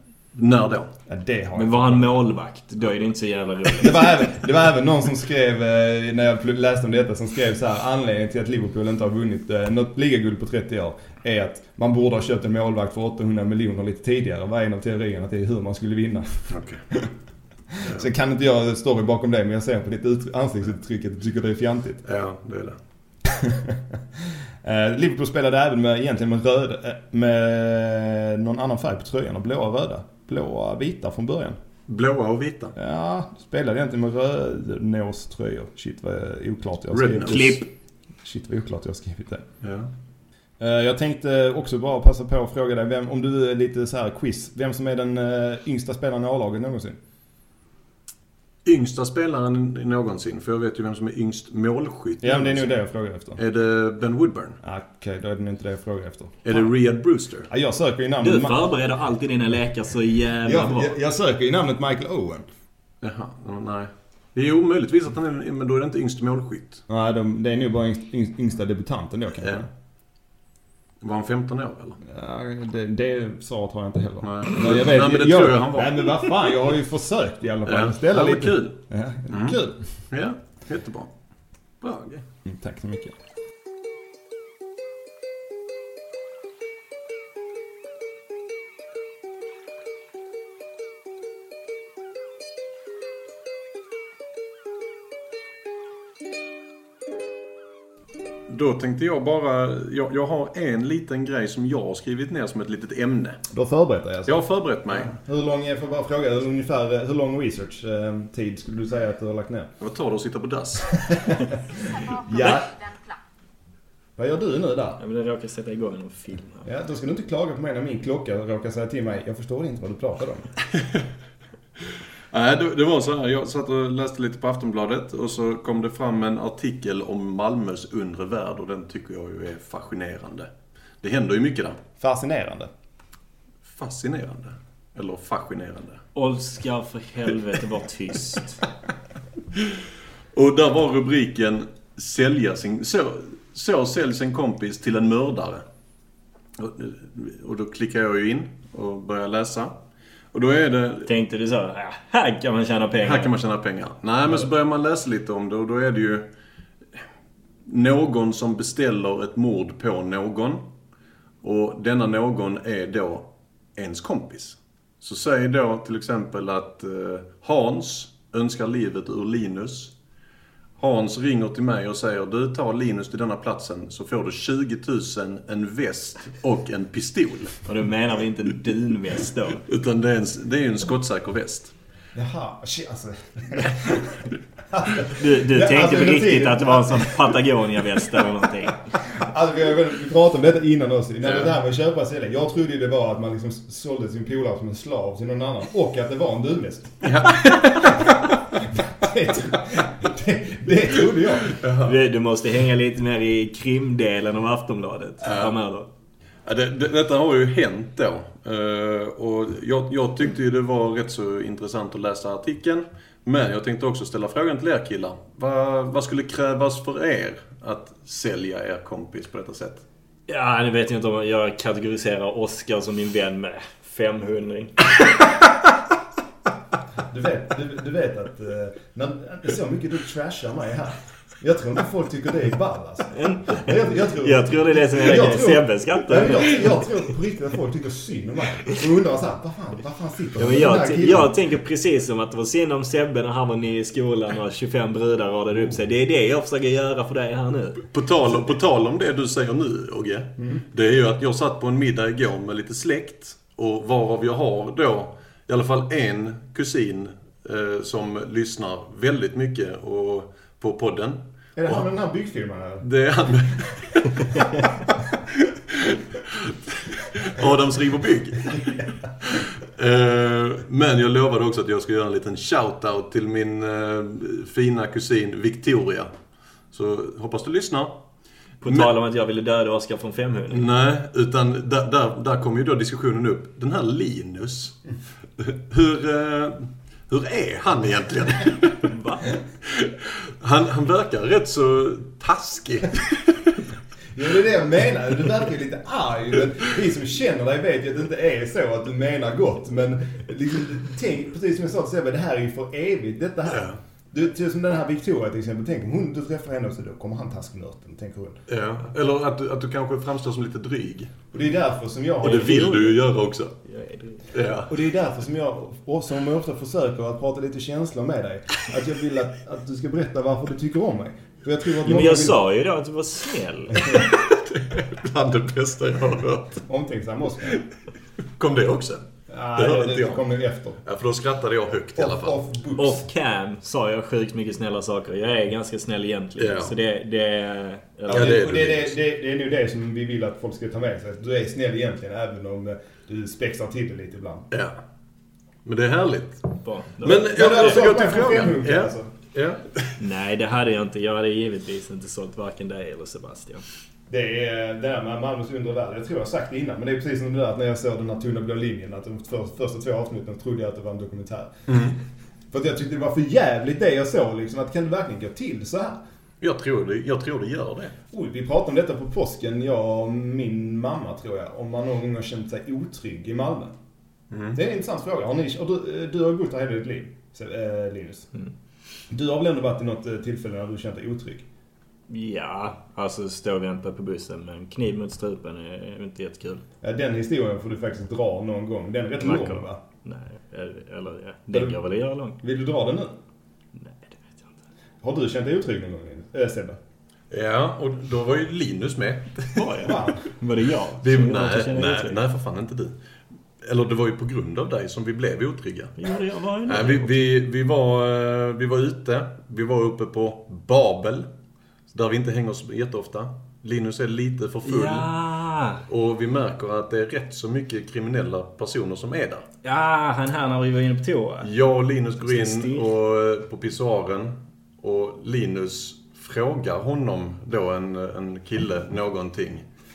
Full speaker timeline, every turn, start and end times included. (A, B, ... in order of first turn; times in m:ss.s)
0:00.3-0:00.9 A
0:01.1-0:02.1 B
0:01.5-0:04.2 C
0:03.8-0:17.1 B
0:16.5-0:16.8 A
0:17.7-0:22.0 B
0:22.0-0:22.8 A
0:23.2-0:31.6 B
0:31.9-0:32.7 A
0:32.8-0:37.6 B
0:36.9-0:37.6 A
0:37.2-0:37.6 C
0:38.2-0:39.4 B
0:39.6-0:39.9 A
0:40.6-0:47.0 B
0:48.6-0:52.6 A
0:52.2-0:53.4 B
0:53.4-0:54.6 A
0:54.6-0:56.6 B
0:56.4-0:57.5 A
0:57.5-0:58.6 B
0:58.2-1:00.9 C
1:00.4-1:02.4 B
1:03.0-1:06.8 A
1:06.9-1:09.7 B
1:11.0-1:12.0 A
1:12.0-1:19.8 B
1:14.2-1:16.4 A
1:17.6-1:18.8 A
1:19.3-1:19.6 A
1:20.1-1:21.1 A
1:21.8-1:22.2 A
1:22.4-1:23.1 B
1:38.5-1:43.4 A
1:43.5-1:49.7 B
1:44.2-1:45.2 A
1:49.8-1:51.0 A
1:50.9-1:52.9 B
1:54.2-1:55.0 B
1:55.0-1:56.6 C
1:56.6-2:00.5 B
2:02.3-2:10.5 A
2:11.0-2:11.8 A
2:12.0-2:12.7 B
2:13.6-2:16.0 A
2:16.1-2:18.6 C
2:20.3-2:25.6 A
2:26.6-2:29.8 A
2:30.3-2:31.1 A
2:31.0-2:33.3 C
2:33.0-2:36.3 A
2:37.6-2:40.6 A
2:41.4-2:49.9 A
2:50.8-2:57.6 A
2:57.6-2:59.6 C
2:59.6-3:01.7 A
3:02.1-3:07.2 B
3:05.0-3:08.8 C
3:09.1-3:21.6 B
3:11.2-3:11.5 A
3:17.0-3:18.1 A
3:21.4-3:22.0 A
3:21.8-3:25.9 C
3:25.2-3:25.5 A
3:26.4-3:39.8 A
3:40.3-3:44.8 C
3:47.0-4:01.3 B
3:53.1-3:56.8 C
4:00.4-4:07.9 C
4:07.9-4:21.8 A
4:21.6-4:22.8 B
4:22.8-4:36.1 A
4:36.7-4:38.0 A
4:38.6-4:40.6 C
4:40.5-4:44.8 A
4:45.4-4:48.9 A
4:48.8-4:49.3 C
4:49.6-4:53.6 A
4:54.1-5:08.4 B
5:03.5-5:03.8 A
5:08.5-5:11.1 A
5:11.3-5:13.0 B
5:12.2-5:13.5 A
5:13.6-5:14.2 C
5:14.3-5:14.7 A
5:14.7-5:22.4 B
5:21.8-5:24.0 C
5:23.9-5:26.6 A
5:26.6-5:27.6 B
5:27.4-5:27.7 A
5:28.4-5:30.2 A
5:29.3-5:30.8 B
5:30.8-5:32.4 A
5:32.0-5:33.1 B
5:32.8-5:38.4 C
5:36.4-5:36.7 A
5:38.1-5:38.9 A
5:38.1-5:44.5 B
5:44.5-5:44.8 A
5:45.6-5:50.0 A
5:46.6-5:47.8 C
5:47.3-5:49.1 B
5:50.0-5:53.6 C
5:54.1-6:01.5 B
6:01.7-6:02.0 A
6:02.5-6:06.0 B
6:06.4-6:07.9 A
6:08.1-6:13.7 B
6:14.3-6:14.6 A
6:14.5-6:18.3 B
6:19.1-6:21.5 B
6:22.1-6:26.6 C
6:26.8-6:29.8 B
6:29.2-6:32.4 C
6:31.5-6:31.8 B
6:32.4-6:33.2 B
6:33.8-6:34.5 C
6:35.0-6:36.8 B
6:37.3-6:39.7 A
6:39.5-6:42.2 C
6:39.8-6:40.2 B
6:41.0-6:42.9 A
6:43.6-6:46.0 A
6:46.0-6:47.2 C
6:46.6-6:51.3 A
6:51.9-6:55.1 A
6:54.6-6:55.8 C
6:55.9-6:59.4 A
6:59.6-7:01.5 C
7:01.4-7:09.6 A
7:02.2-7:02.9 C